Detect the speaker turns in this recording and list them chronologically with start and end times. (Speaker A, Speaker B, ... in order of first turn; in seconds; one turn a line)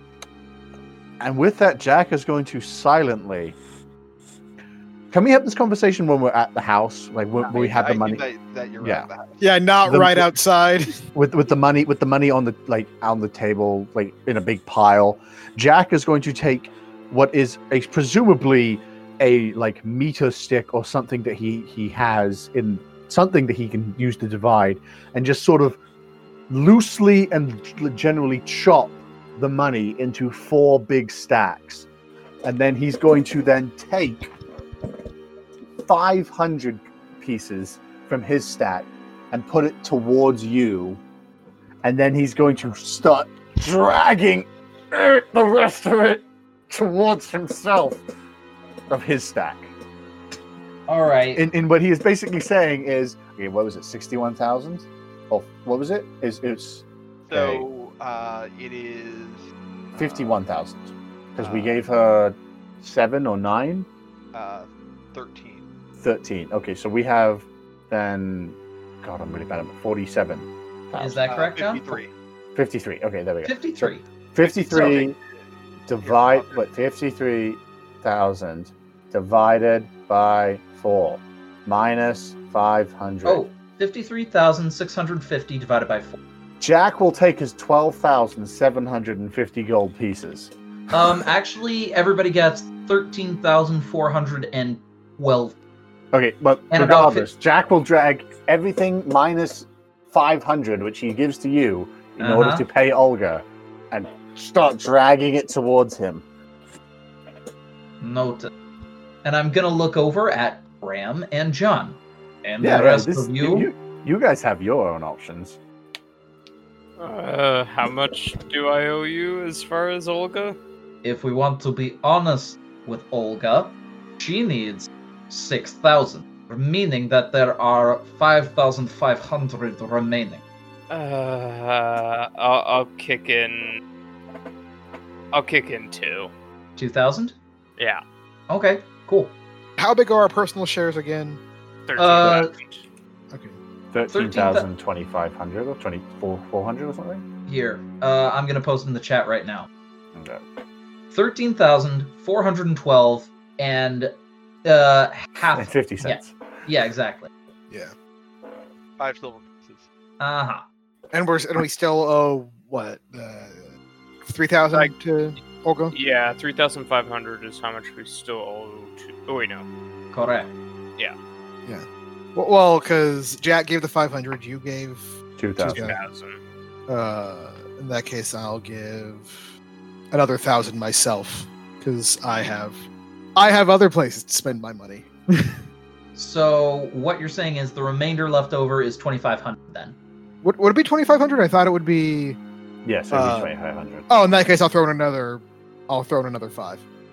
Speaker A: 1.2-3.5
Speaker A: 5.1-8.2
Speaker B: 7.4-9.4
Speaker A: 8.8-9.1
Speaker C: 9.4-11.0
Speaker A: 9.8-10.3
Speaker A: 11.1-25.8
Speaker A: 26.5-31.9
Speaker A: 32.4-34.3
Speaker A: 35.8-41.0
Speaker A: 41.8-48.0
Speaker A: 48.9-49.7
Speaker D: 50.9-51.4
Speaker A: 51.3-57.6
Speaker B: 57.3-59.5
Speaker A: 60.0-63.9
Speaker B: 61.4-61.8
Speaker B: 64.3-65.6
Speaker A: 66.0-71.3
Speaker D: 71.0-72.0
Speaker B: 71.2-72.1
Speaker A: 72.5-75.2
Speaker D: 73.4-74.0
Speaker B: 74.4-75.4
Speaker A: 75.9-83.4
Speaker B: 76.0-76.6
Speaker D: 83.2-86.2
Speaker A: 86.6-90.5
Speaker D: 90.9-95.6
Speaker A: 96.1-106.2
Speaker D: 96.7-97.3
Speaker D: 102.2-102.6
Speaker D: 108.0-108.5
Speaker D: 109.2-113.7
Speaker A: 112.6-115.6
Speaker E: 117.0-120.6
Speaker D: 121.0-130.4
Speaker E: 130.9-133.8
Speaker E: 135.3-136.3
Speaker D: 136.8-137.3
Speaker E: 137.8-138.0
Speaker D: 138.5-139.3
Speaker C: 139.8-141.4
Speaker E: 141.9-142.8
Speaker D: 142.0-142.5
Speaker C: 143.3-143.6
Speaker A: 143.9-147.2
Speaker D: 144.1-144.7
Speaker D: 147.5-149.7
Speaker A: 150.1-150.4
Speaker D: 151.1-154.1
Speaker D: 154.6-157.3
Speaker A: 155.4-156.3
Speaker B: 159.0-159.9
Speaker D: 160.2-160.7
Speaker C: 161.1-163.7
Speaker C: 164.2-165.9
Speaker E: 165.9-169.7
Speaker D: 170.1-170.5
Speaker C: 171.7-176.0
Speaker A: 175.4-175.9
Speaker E: 175.8-176.4
Speaker C: 176.9-179.5
Speaker C: 180.1-185.6
Speaker D: 186.1-189.9
Speaker C: 190.4-192.4
Speaker A: 192.8-194.1
Speaker C: 193.1-193.5
Speaker C: 194.1-196.8